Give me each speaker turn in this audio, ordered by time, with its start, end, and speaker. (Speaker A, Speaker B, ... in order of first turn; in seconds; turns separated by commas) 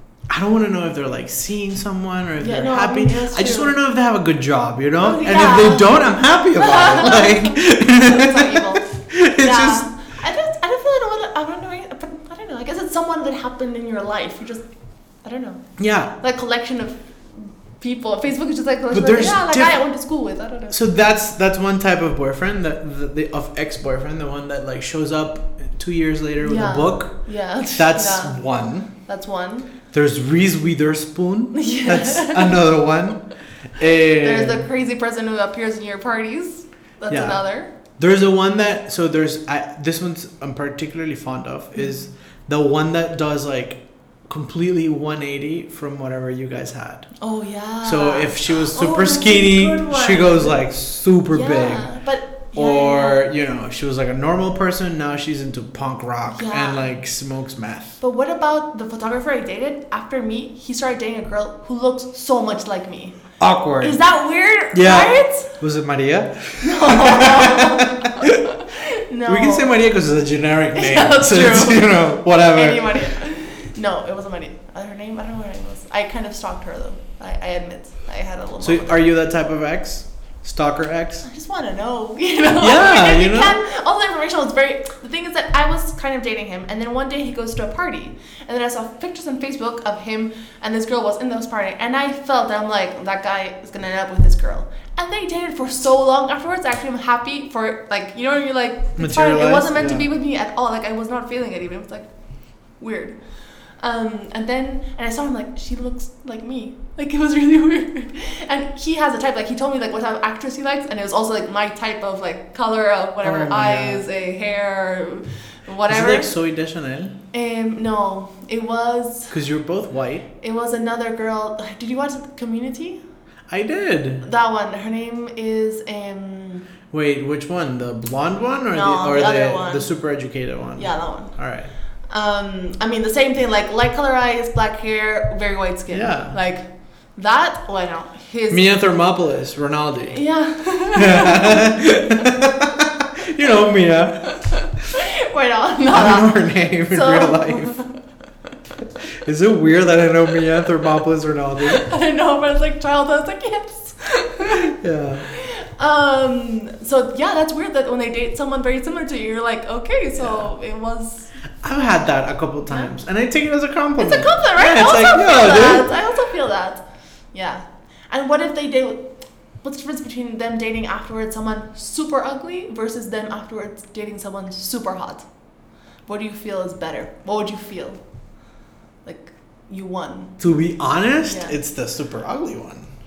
Speaker A: 0.3-9.9, Speaker B: 2.4-3.8, Speaker B: 5.0-14.7, Speaker B: 15.2-20.8, Speaker A: 15.8-16.1, Speaker A: 18.9-19.8, Speaker A: 20.7-28.9, Speaker B: 26.4-29.7, Speaker A: 29.9-34.6, Speaker B: 31.5-32.6, Speaker B: 33.8-37.7, Speaker A: 37.1-37.4, Speaker A: 38.0-47.1, Speaker B: 47.2-50.6, Speaker A: 47.8-51.9, Speaker B: 51.3-53.2, Speaker A: 52.5-58.0, Speaker B: 56.3-56.9, Speaker B: 58.0-63.2, Speaker A: 63.4-64.0, Speaker B: 63.8-65.5, Speaker A: 64.7-68.4, Speaker B: 66.6-69.7, Speaker A: 69.2-73.1, Speaker B: 70.7-79.1, Speaker A: 78.6-81.2, Speaker B: 81.2-102.1, Speaker A: 82.6-83.6, Speaker A: 99.0-100.0, Speaker B: 102.8-103.2, Speaker B: 103.8-116.3, Speaker A: 113.2-114.0, Speaker A: 115.9-117.1, Speaker B: 117.3-119.3, Speaker A: 119.3-120.2, Speaker B: 120.4-123.0, Speaker A: 123.5-124.2, Speaker B: 124.2-126.7, Speaker A: 126.9-131.7, Speaker B: 128.7-129.9, Speaker B: 130.8-131.4, Speaker B: 132.1-138.7, Speaker A: 135.9-136.4, Speaker A: 138.5-140.2, Speaker B: 140.1-141.8, Speaker A: 140.9-144.4, Speaker B: 144.3-148.0, Speaker A: 145.9-147.8, Speaker A: 149.2-151.8, Speaker B: 151.7-161.3, Speaker A: 154.6-155.2, Speaker A: 160.2-160.5, Speaker A: 161.6-165.9, Speaker B: 164.0-169.1, Speaker B: 169.6-175.3, Speaker B: 176.1-178.0, Speaker B: 179.0-180.4, Speaker A: 180.4-182.9, Speaker B: 181.2-181.5